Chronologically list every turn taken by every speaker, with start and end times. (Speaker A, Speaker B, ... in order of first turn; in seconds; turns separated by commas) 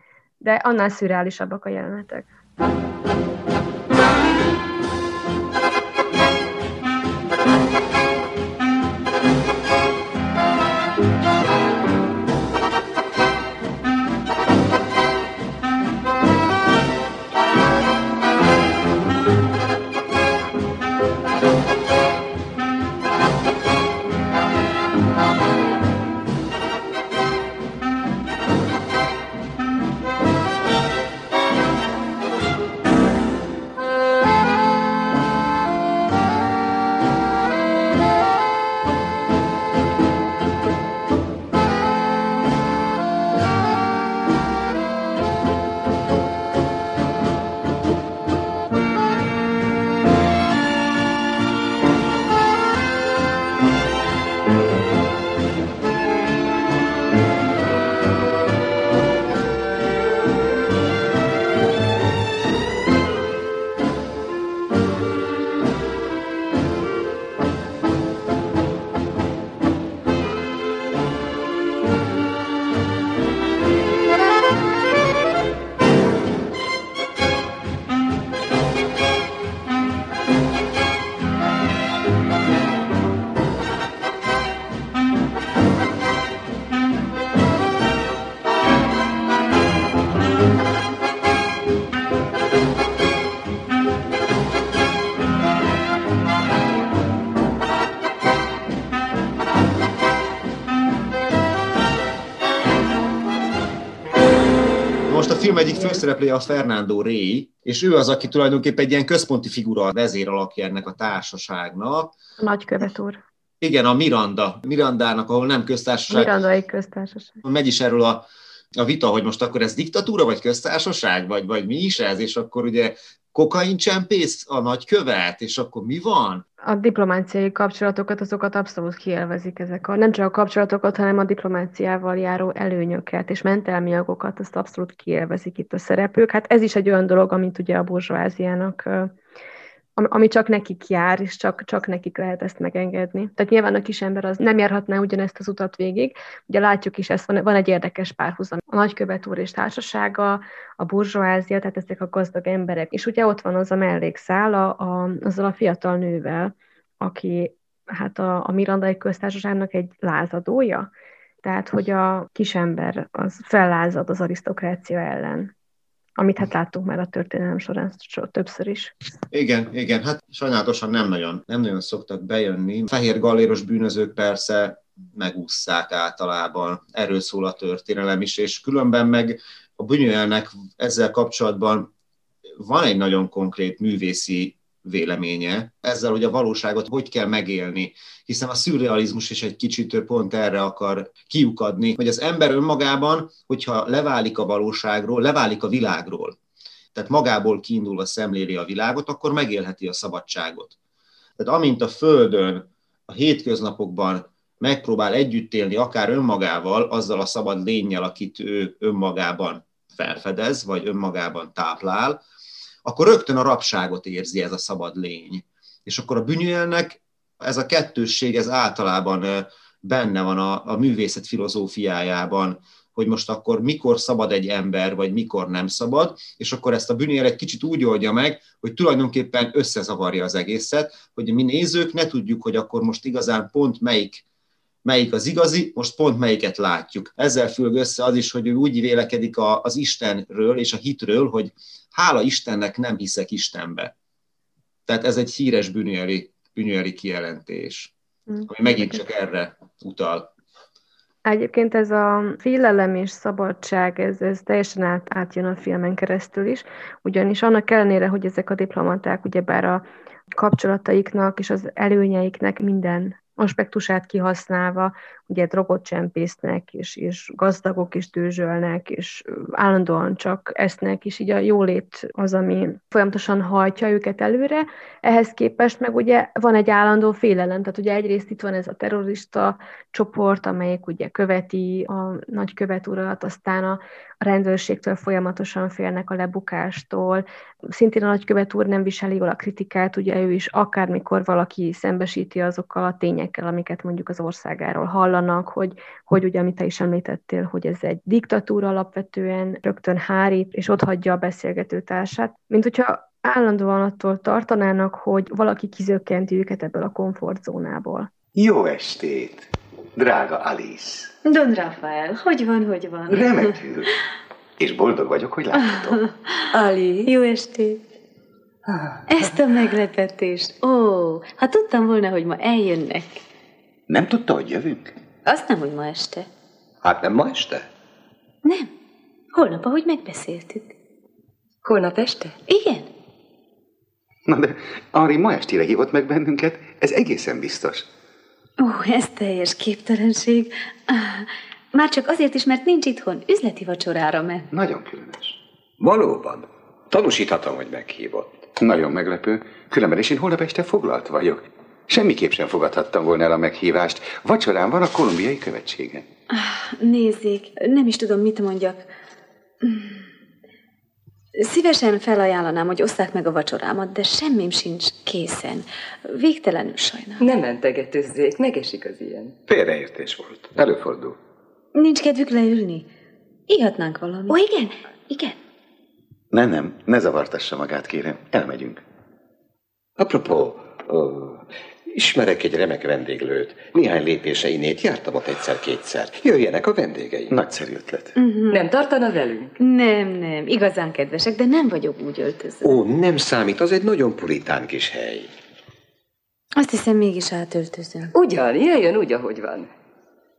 Speaker A: 0.4-2.3, Speaker B: 105.1-112.1, Speaker A: 112.4-113.2, Speaker B: 113.6-116.3, Speaker A: 116.1-117.4, Speaker B: 117.4-118.2, Speaker B: 118.8-126.5, Speaker A: 126.6-139.1, Speaker A: 140.0-160.9, Speaker A: 161.4-165.5, Speaker A: 166.2-168.9, Speaker B: 169.3-181.9, Speaker B: 182.6-196.4, Speaker B: 196.9-200.8, Speaker B: 201.4-212.2, Speaker B: 212.8-234.2, Speaker B: 234.8-243.9, Speaker B: 244.9-247.9, Speaker A: 248.3-249.0, Speaker B: 248.5-250.3, Speaker A: 251.2-259.8, Speaker A: 260.4-308.1, Speaker C: 308.4-311.1, Speaker D: 311.2-313.4, Speaker C: 313.1-313.9, Speaker C: 314.6-316.0, Speaker D: 315.8-317.8, Speaker E: 316.5-317.1, Speaker D: 319.1-323.2, Speaker C: 323.9-324.9, Speaker D: 325.2-326.3, Speaker F: 326.8-327.6, Speaker D: 328.4-328.7, Speaker D: 329.3-330.7, Speaker E: 331.6-332.4, Speaker D: 332.5-332.9, Speaker C: 334.3-337.9, Speaker D: 338.6-344.5, Speaker C: 344.5-345.4, Speaker F: 345.8-348.4, Speaker C: 348.6-356.1, Speaker D: 356.3-358.9, Speaker D: 359.6-360.0, Speaker D: 361.4-367.2, Speaker E: 367.2-369.4, Speaker C: 369.5-371.1, Speaker D: 371.8-372.9, Speaker D: 373.5-375.3, Speaker C: 376.3-378.8, Speaker F: 380.0-387.3, Speaker C: 387.3-388.1, Speaker D: 388.2-388.6, Speaker E: 388.5-389.6, Speaker D: 389.6-392.7, Speaker F: 392.6-395.3, Speaker D: 396.6-398.1, Speaker E: 398.1-399.7